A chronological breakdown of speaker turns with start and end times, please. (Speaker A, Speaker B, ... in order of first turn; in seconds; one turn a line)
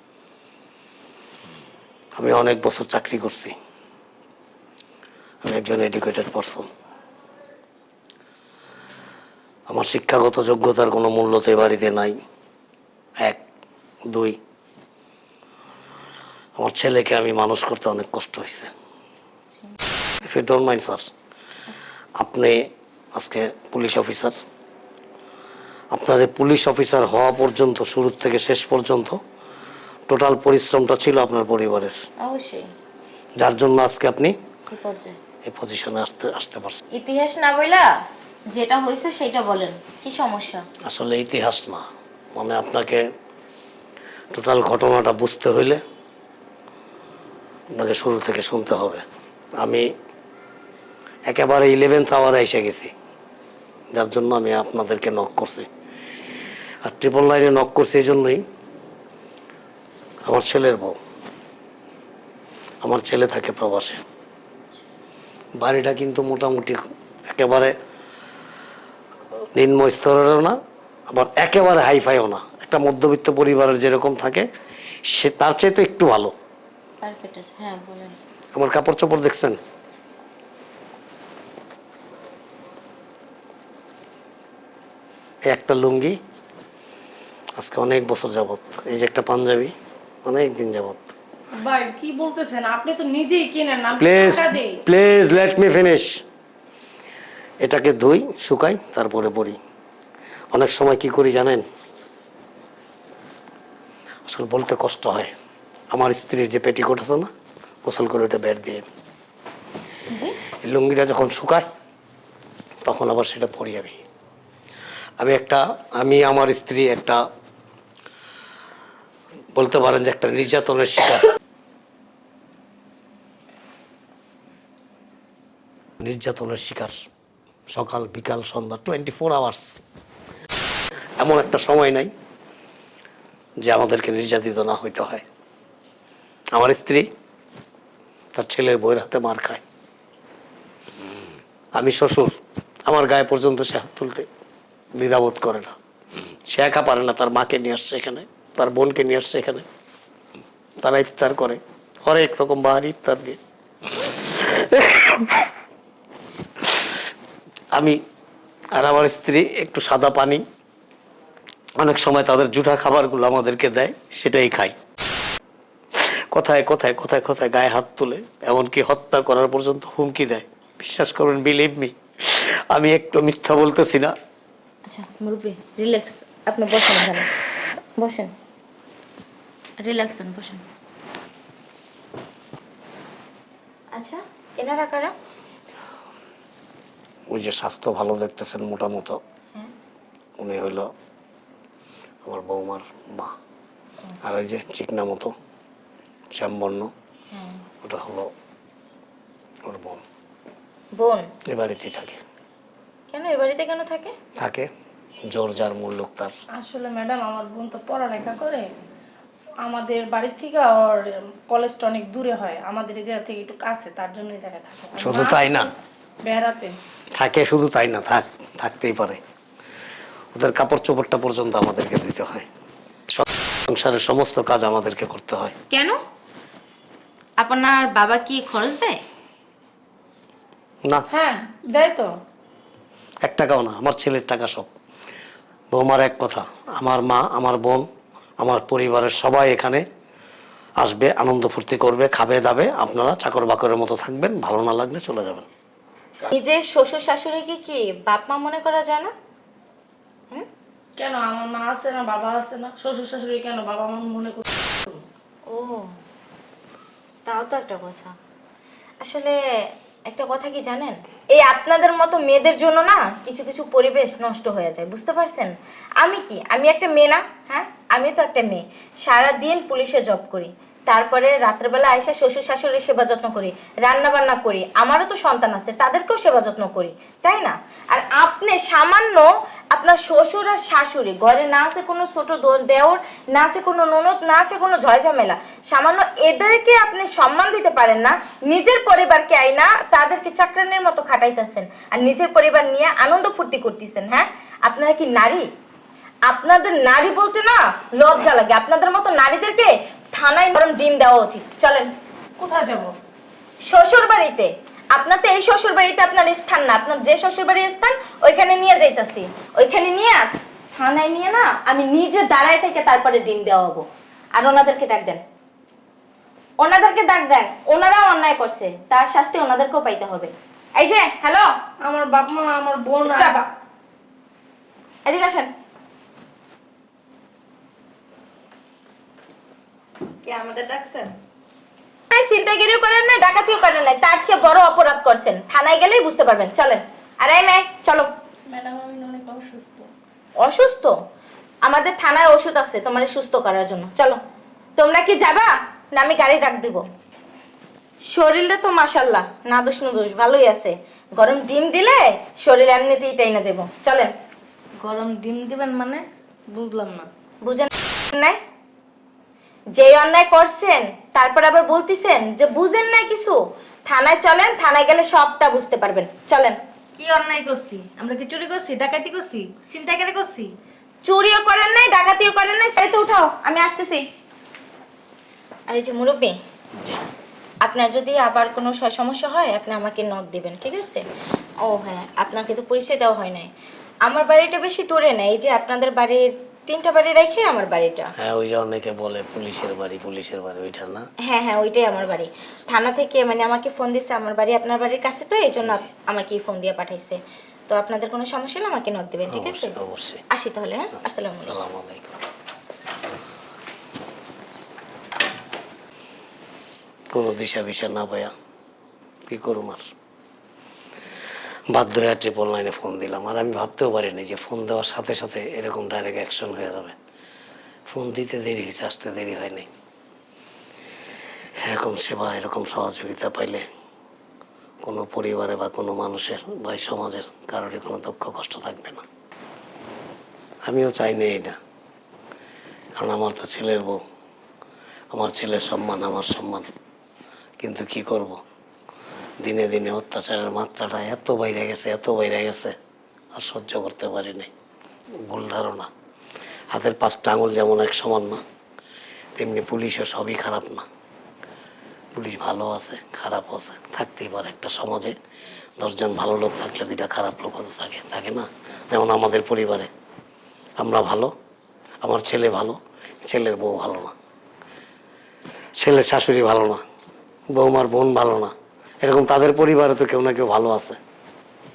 Speaker A: 2.2-3.5
Speaker A: 5.4-6.7
Speaker A: 9.7-12.2
Speaker A: 14.1-14.4
Speaker A: 16.6-18.7
Speaker A: 20.2-21.1
Speaker A: 22.2-24.4
Speaker A: 25.9-29.2
Speaker A: 30.1-32.0
Speaker B: 32.2-32.7
Speaker A: 33.4-34.3
Speaker B: 34.7-35.2
Speaker A: 35.4-36.8
Speaker B: 36.9-37.9
Speaker B: 38.5-40.6
Speaker A: 40.9-43.0
Speaker A: 44.3-45.8
Speaker A: 47.7-49.0
Speaker A: 51.3-52.9
Speaker A: 53.9-55.7
Speaker A: 56.8-58.4
Speaker A: 60.2-61.0
Speaker A: 62.8-64.0
Speaker A: 65.6-67.7
Speaker A: 69.5-70.6
Speaker A: 71.1-74.5
Speaker A: 75.1-76.3
Speaker B: 77.0-78.2
Speaker A: 78.5-79.6
Speaker A: 85.5-86.2
Speaker A: 87.6-89.7
Speaker A: 90.2-91.1
Speaker C: 91.5-94.8
Speaker A: 94.0-96.2
Speaker A: 97.6-99.6
Speaker A: 100.5-101.6
Speaker A: 104.3-105.3
Speaker A: 105.9-107.3
Speaker A: 107.8-108.8
Speaker B: 110.1-110.4
Speaker A: 110.5-111.7
Speaker A: 112.8-114.0
Speaker A: 115.2-117.2
Speaker A: 119.5-121.2
Speaker A: 126.0-127.0
Speaker A: 127.7-129.8
Speaker A: 131.2-132.1
Speaker A: 133.6-135.2
Speaker A: 136.5-137.1
Speaker A: 138.3-139.6
Speaker A: 141.7-144.3
Speaker A: 144.9-145.8
Speaker A: 146.5-149.7
Speaker A: 150.8-153.4
Speaker A: 153.9-155.5
Speaker A: 158.7-160.4
Speaker A: 161.8-164.8
Speaker A: 166.0-174.1
Speaker B: 174.8-177.3
Speaker B: 177.9-178.3
Speaker B: 179.8-180.6
Speaker B: 183.9-185.1
Speaker A: 187.3-189.2
Speaker A: 190.4-190.9
Speaker A: 192.2-193.3
Speaker A: 194.2-195.3
Speaker A: 196.3-196.9
Speaker B: 197.3-197.6
Speaker A: 197.8-198.3
Speaker A: 199.6-200.0
Speaker B: 200.9-201.3
Speaker A: 201.5-202.2
Speaker B: 203.1-204.2
Speaker A: 204.3-204.7
Speaker A: 205.3-206.3
Speaker C: 206.6-208.7
Speaker C: 209.6-215.7
Speaker A: 215.0-215.7
Speaker C: 216.2-216.8
Speaker A: 217.2-219.2
Speaker A: 220.3-222.5
Speaker A: 223.1-225.5
Speaker B: 225.7-226.0
Speaker B: 227.4-229.0
Speaker C: 231.1-232.1
Speaker A: 233.2-234.7
Speaker A: 235.7-237.8
Speaker A: 238.4-239.8
Speaker A: 240.8-245.4
Speaker B: 246.3-249.1
Speaker C: 251.0-255.0
Speaker B: 255.5-255.9
Speaker B: 257.2-258.1
Speaker B: 259.0-295.5
Speaker B: 296.3-301.9
Speaker C: 302.4-302.9
Speaker B: 303.7-315.2
Speaker B: 316.6-321.5
Speaker C: 321.8-323.5
Speaker B: 323.1-323.4
Speaker B: 325.0-325.5
Speaker D: 330.2-331.1
Speaker B: 332.1-338.1
Speaker C: 338.5-339.9
Speaker B: 340.4-340.9
Speaker B: 341.6-344.2
Speaker B: 344.8-346.9
Speaker B: 348.1-354.1
Speaker D: 354.8-357.1
Speaker B: 357.4-358.4
Speaker B: 359.7-366.6
Speaker D: 367.0-370.5
Speaker B: 371.0-374.1
Speaker B: 375.7-376.4
Speaker B: 377.6-381.1
Speaker B: 381.6-383.5
Speaker B: 384.0-388.1
Speaker A: 388.2-391.0
Speaker B: 391.2-399.8
Speaker A: 395.6-395.9
Speaker A: 399.2-400.2
Speaker B: 400.3-401.6
Speaker A: 400.9-402.2
Speaker A: 407.1-408.3
Speaker A: 409.3-409.8
Speaker A: 411.7-416.9
Speaker A: 417.9-419.7
Speaker A: 421.6-423.6
Speaker A: 424.8-429.0
Speaker A: 430.6-431.6
Speaker A: 432.9-434.0
Speaker A: 435.1-436.7
Speaker A: 437.6-438.4
Speaker A: 439.4-442.7
Speaker A: 443.3-444.5
Speaker A: 445.3-445.9
Speaker A: 446.7-448.4
Speaker A: 449.3-450.9
Speaker A: 452.1-455.1
Speaker A: 455.8-459.9
Speaker A: 460.8-461.3
Speaker A: 462.0-464.1
Speaker A: 465.8-466.8
Speaker A: 467.5-471.0